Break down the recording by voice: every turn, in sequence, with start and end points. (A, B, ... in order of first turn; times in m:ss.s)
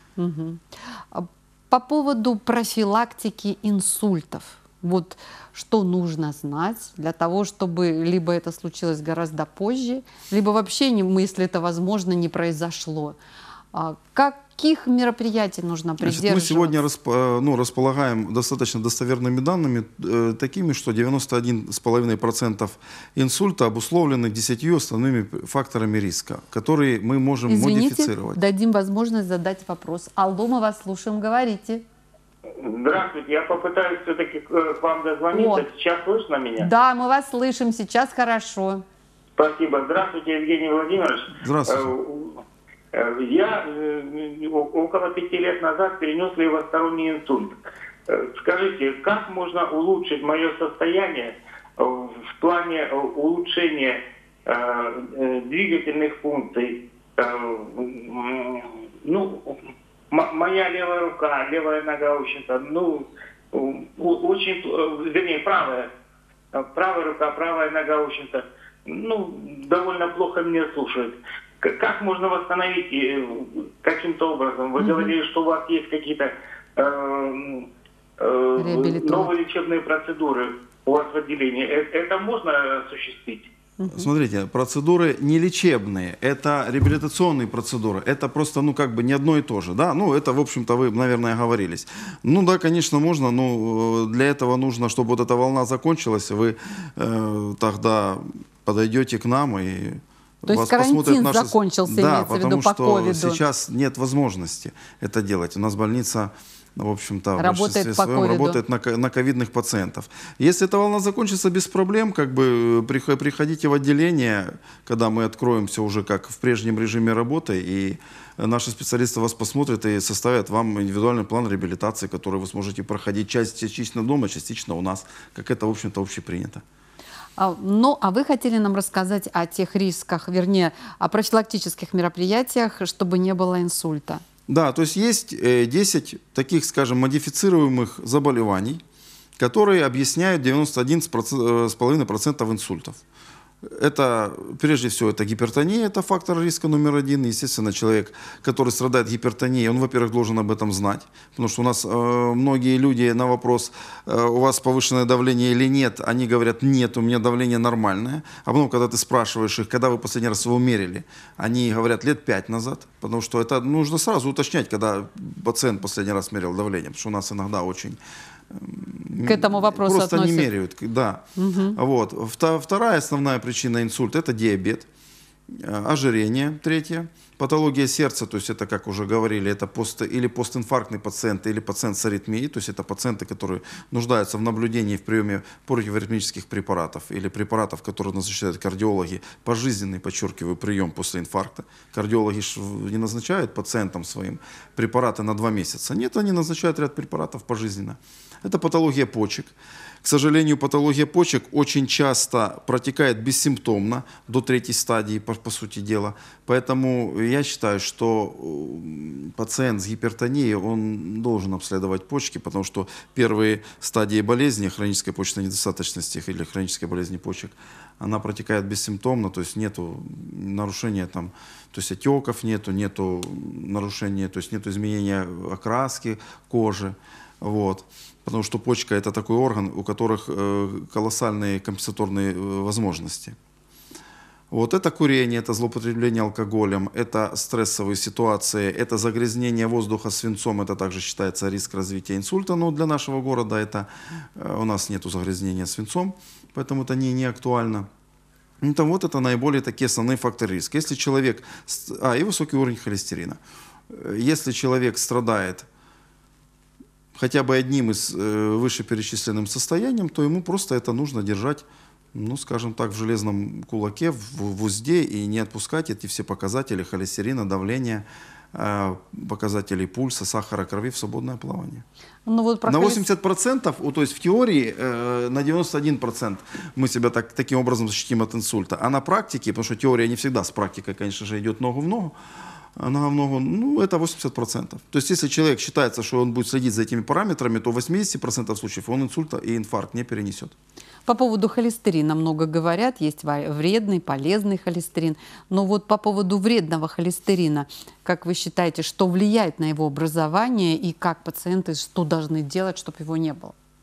0:00.2-0:13.2 A
0:13.7-0:16.8 A
0:16.0-0:28.4 B
0:27.5-0:31.8 A
0:32.6-0:36.7 C
0:35.3-0:35.7 A
0:36.6-0:38.8 A
0:39.4-0:47.6 C
0:41.4-0:41.9 B
0:48.1-0:59.6 C
1:00.1-1:05.9 C
1:06.5-1:17.7 C
1:14.8-1:15.1 A
1:18.2-1:23.5 C
1:18.6-1:19.3 A
1:23.8-1:24.1 A
1:23.9-2:06.6 B
1:40.5-1:43.4 A
1:47.4-1:48.6 A
2:07.4-2:14.2 A
2:14.5-2:18.8 B
2:19.4-2:23.0 B
2:23.6-2:48.0 B
2:48.5-2:54.9 B
2:49.3-2:50.5 A
2:51.4-2:51.8 A
2:55.5-3:53.4 B
3:54.5-4:07.9 B
4:08.6-4:15.7 B
4:17.2-4:31.8 B
4:32.3-4:33.0 A
4:32.7-4:42.2 B
4:42.8-4:50.6 B
4:51.1-5:03.6 A